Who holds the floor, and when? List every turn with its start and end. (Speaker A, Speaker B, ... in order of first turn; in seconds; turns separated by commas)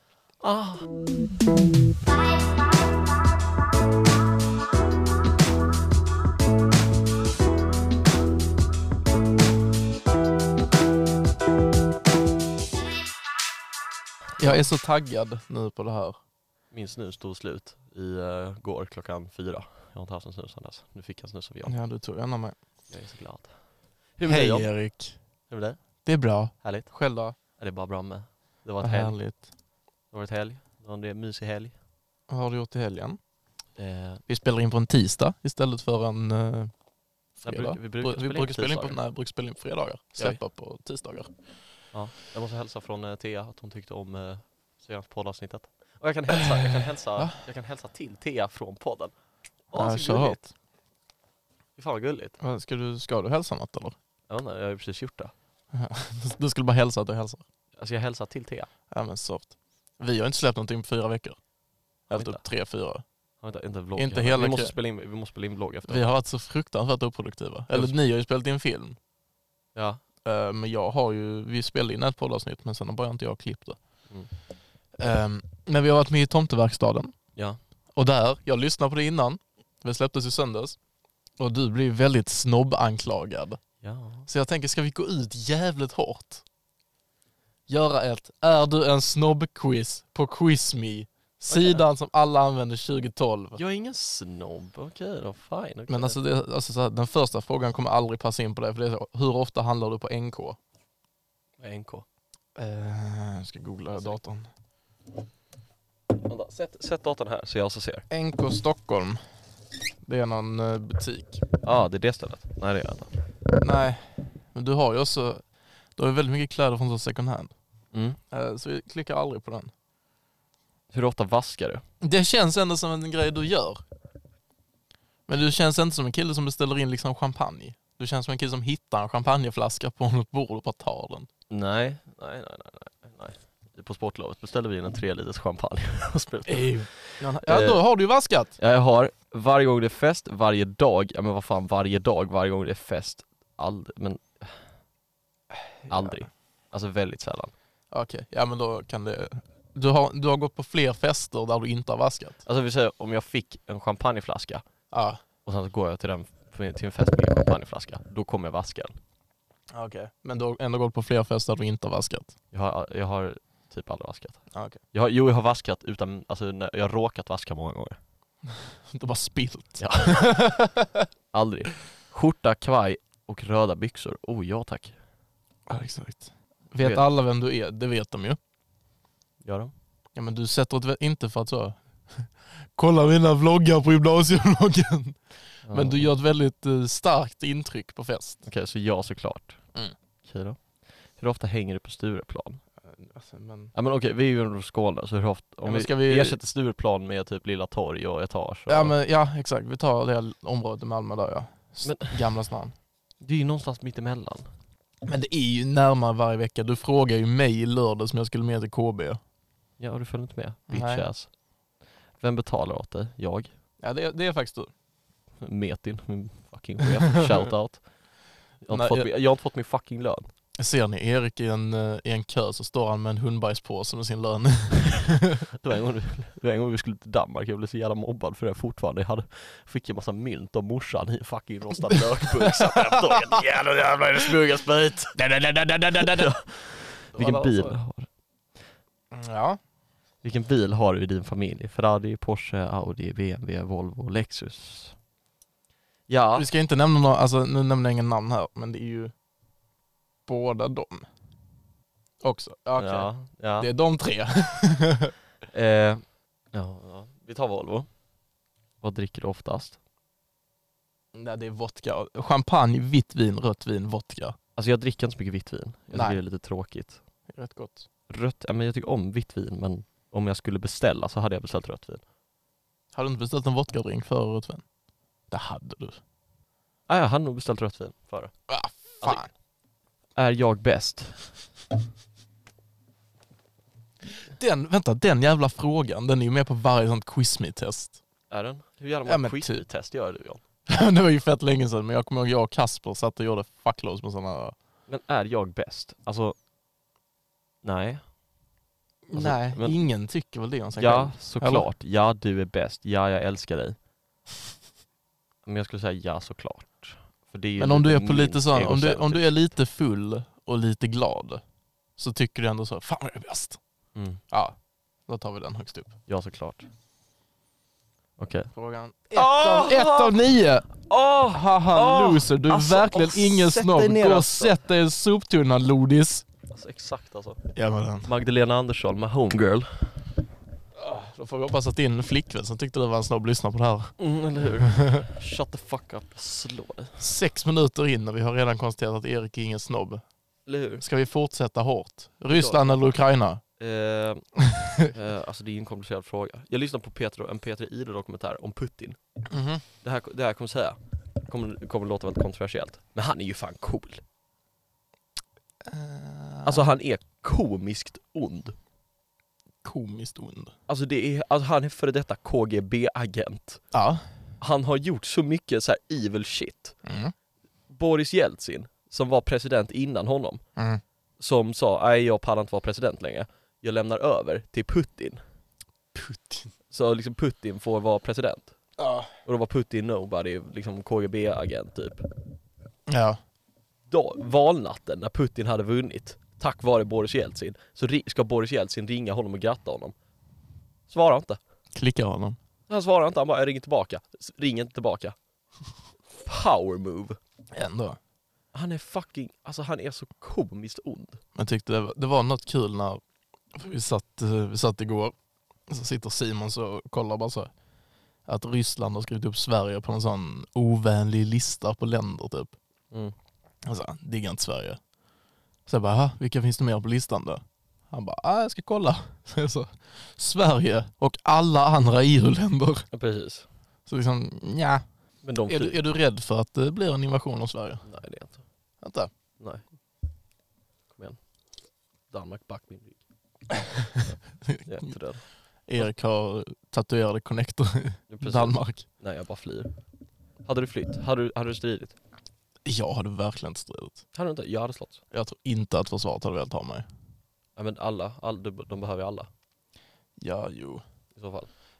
Speaker A: 0.4-0.9, Speaker B: 14.4-16.2, Speaker A: 16.7-21.7, Speaker B: 21.6-22.6, Speaker A: 22.9-23.5, Speaker A: 24.2-24.7, Speaker B: 24.2-25.2, Speaker A: 25.5-25.8, Speaker B: 26.0-27.3, Speaker A: 26.6-26.9, Speaker A: 27.6-29.2, Speaker B: 28.8-29.4, Speaker A: 30.1-31.7, Speaker B: 32.3-33.2, Speaker A: 33.8-34.2, Speaker B: 34.3-36.7, Speaker B: 37.4-41.3, Speaker A: 37.4-39.0, Speaker A: 41.9-49.1, Speaker B: 46.4-47.4, Speaker A: 49.7-50.5, Speaker B: 49.7-50.4, Speaker A: 51.8-52.4, Speaker B: 52.4-54.0, Speaker A: 54.3-55.3, Speaker B: 55.7-57.4, Speaker A: 57.8-58.7, Speaker B: 58.9-61.4, Speaker A: 62.1-62.4, Speaker B: 62.1-63.0, Speaker A: 63.4-66.1, Speaker B: 64.0-64.7, Speaker B: 65.9-69.0, Speaker A: 69.7-70.0, Speaker B: 70.2-73.8, Speaker B: 75.0-77.1, Speaker B: 77.9-80.8, Speaker B: 81.4-83.6, Speaker A: 83.8-84.3, Speaker B: 84.2-86.4, Speaker B: 87.7-93.6, Speaker A: 91.5-91.8, Speaker A: 93.5-96.2, Speaker B: 95.9-100.6, Speaker A: 101.6-102.0, Speaker B: 102.5-104.5, Speaker A: 106.2-108.0, Speaker B: 108.1-109.2, Speaker B: 110.0-111.4, Speaker A: 111.6-113.1, Speaker B: 113.6-115.4, Speaker B: 116.0-117.5, Speaker A: 117.9-118.2, Speaker B: 118.3-119.7, Speaker A: 120.9-121.8, Speaker B: 122.0-123.8, Speaker B: 125.3-131.3, Speaker A: 131.5-137.8, Speaker B: 136.5-138.6, Speaker A: 138.6-144.6, Speaker B: 145.8-146.2, Speaker A: 145.9-147.5, Speaker B: 147.9-152.4, Speaker A: 152.4-154.6, Speaker B: 154.9-155.2, Speaker A: 155.4-159.0, Speaker B: 159.7-162.3, Speaker A: 162.5-168.0, Speaker B: 164.5-164.8, Speaker B: 168.6-171.1, Speaker A: 169.8-170.4, Speaker A: 171.3-174.9, Speaker B: 175.7-178.4, Speaker A: 176.8-177.0, Speaker A: 179.4-179.7, Speaker B: 180.1-188.4, Speaker A: 185.7-186.1, Speaker A: 188.4-189.6, Speaker A: 190.2-190.6, Speaker A: 191.2-192.6, Speaker B: 192.8-193.7, Speaker A: 193.7-198.9, Speaker B: 195.7-196.4, Speaker B: 198.7-202.7, Speaker A: 201.8-202.2, Speaker A: 203.2-204.5, Speaker B: 205.1-209.2, Speaker A: 209.8-211.3, Speaker B: 210.7-211.1, Speaker A: 212.2-213.5, Speaker B: 213.8-214.7, Speaker A: 215.4-217.8, Speaker A: 218.6-220.3, Speaker B: 218.7-219.1, Speaker B: 220.6-225.4, Speaker A: 225.5-238.1, Speaker B: 232.4-233.4, Speaker B: 235.2-236.3, Speaker B: 237.2-237.8, Speaker B: 239.1-239.6, Speaker A: 240.2-244.9, Speaker A: 246.1-246.5, Speaker B: 246.3-249.1, Speaker B: 250.3-251.1, Speaker B: 252.2-255.1, Speaker A: 252.8-253.7, Speaker A: 255.5-257.9, Speaker A: 258.8-259.8, Speaker B: 261.1-264.4, Speaker A: 264.6-267.0, Speaker B: 265.9-266.2, Speaker B: 267.3-267.9, Speaker A: 268.1-272.0, Speaker B: 272.9-274.6, Speaker B: 275.3-276.0, Speaker A: 276.9-278.3, Speaker B: 278.5-279.3, Speaker A: 280.1-281.2, Speaker B: 284.1-288.0, Speaker A: 288.3-290.4, Speaker B: 289.1-289.6, Speaker B: 290.7-294.5, Speaker A: 294.9-296.4, Speaker A: 297.6-298.0, Speaker B: 299.1-301.6, Speaker A: 299.1-299.8, Speaker A: 300.8-303.8, Speaker A: 305.4-309.3, Speaker B: 307.6-311.4, Speaker B: 312.0-313.6, Speaker A: 313.9-314.2, Speaker B: 314.3-314.6, Speaker B: 315.1-315.9, Speaker A: 316.1-316.7, Speaker A: 318.2-318.5, Speaker B: 318.5-320.7, Speaker A: 319.1-320.1, Speaker A: 320.8-324.6, Speaker B: 321.3-326.2, Speaker A: 326.5-327.4, Speaker B: 327.5-328.1, Speaker A: 328.0-329.9, Speaker B: 330.8-333.9, Speaker A: 334.0-337.0, Speaker B: 334.6-335.0, Speaker B: 337.0-340.0, Speaker A: 340.5-340.8, Speaker B: 340.8-343.4, Speaker A: 342.3-342.8, Speaker A: 343.6-344.3, Speaker B: 344.4-344.9, Speaker A: 344.9-349.0, Speaker B: 349.3-349.6, Speaker A: 349.8-354.0, Speaker B: 355.6-356.7, Speaker A: 356.4-358.6, Speaker B: 359.6-360.5, Speaker A: 360.7-363.6, Speaker B: 363.7-364.0, Speaker A: 364.4-366.7, Speaker B: 366.8-367.1, Speaker A: 367.7-370.4, Speaker B: 370.6-370.8, Speaker A: 371.2-375.2, Speaker B: 375.9-376.5, Speaker A: 376.7-378.6, Speaker B: 378.8-379.1, Speaker A: 379.2-382.0, Speaker B: 382.9-383.2, Speaker A: 383.9-389.9, Speaker A: 390.9-391.4, Speaker B: 391.7-392.4, Speaker A: 392.7-395.1, Speaker A: 396.2-397.2, Speaker B: 397.5-398.0, Speaker A: 398.5-401.2, Speaker B: 401.3-403.0, Speaker B: 403.5-405.1, Speaker B: 405.7-407.5, Speaker B: 408.2-412.5, Speaker B: 413.6-414.8, Speaker B: 415.6-422.9, Speaker A: 422.9-423.4, Speaker B: 423.9-424.8, Speaker A: 425.2-425.8, Speaker B: 425.4-427.8, Speaker A: 427.8-428.4, Speaker B: 428.8-429.1, Speaker A: 429.4-429.6, Speaker A: 432.1-433.0, Speaker B: 433.5-434.9, Speaker A: 434.0-435.2, Speaker B: 435.7-438.8, Speaker A: 438.1-439.7, Speaker A: 440.4-442.0, Speaker B: 442.6-444.0, Speaker A: 444.1-445.0, Speaker B: 445.1-446.9, Speaker A: 447.6-449.3, Speaker B: 450.2-450.8, Speaker A: 451.1-451.5